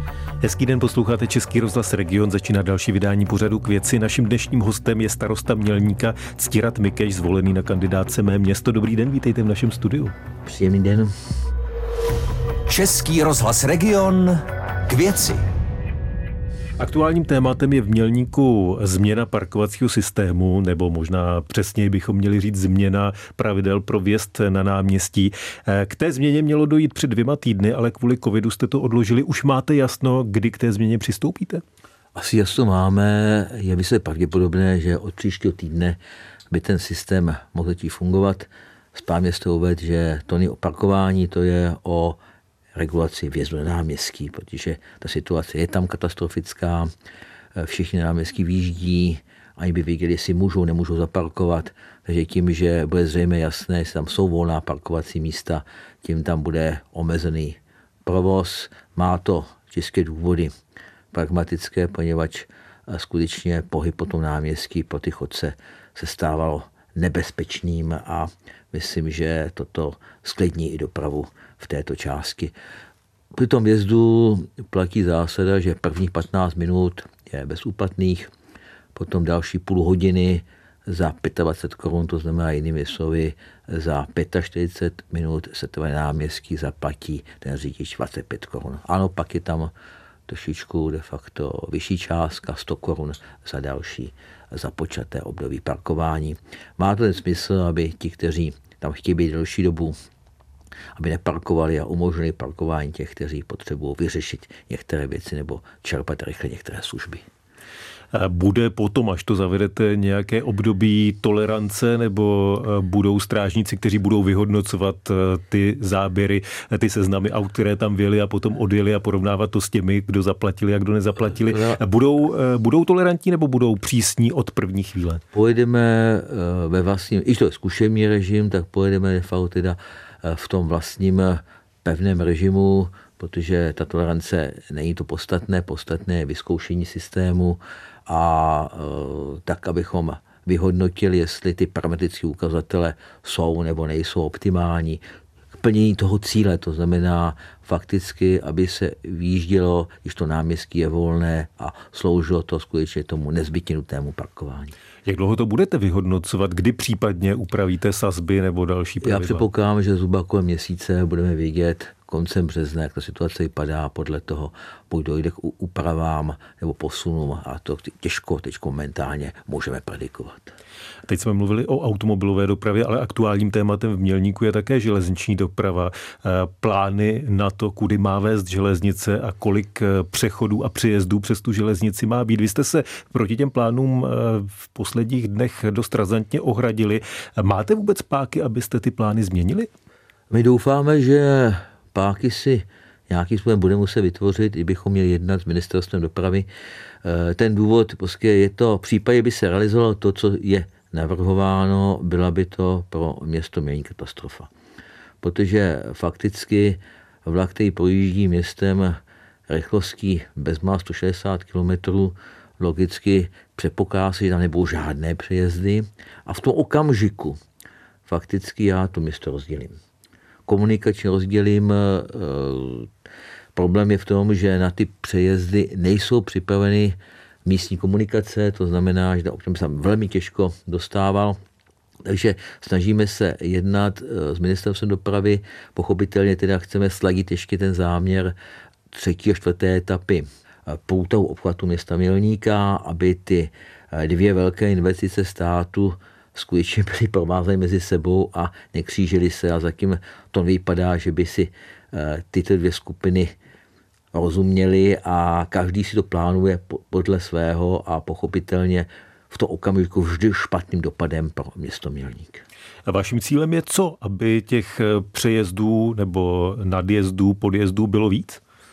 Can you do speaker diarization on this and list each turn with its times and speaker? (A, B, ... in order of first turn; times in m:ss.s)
0:00.4-0:10.1 A
0:10.4-0:11.1 B
0:12.7-0:15.4 C
0:16.8-0:31.6 A
0:32.1-0:36.0 B
0:36.5-0:42.2 B
0:42.7-0:46.9 B
0:47.6-1:00.5 B
1:01.1-1:12.5 B
1:13.3-1:18.3 B
1:18.9-1:29.7 B
1:30.2-1:39.9 B
1:40.9-1:47.2 B
1:48.1-2:05.2 A
2:01.3-2:01.8 B
2:05.3-2:25.0 B
2:25.6-2:34.7 B
2:35.1-2:39.0 A
2:39.0-2:50.5 B
2:51.1-3:09.7 A
3:10.3-3:16.5 B
3:17.0-3:24.5 B
3:25.2-3:37.4 B
3:38.0-3:39.8 B
3:40.4-3:42.9 B
3:43.5-3:51.4 B
3:52.0-3:58.4 B
3:58.9-4:13.3 B
4:14.1-4:22.4 B
4:22.8-4:28.4 A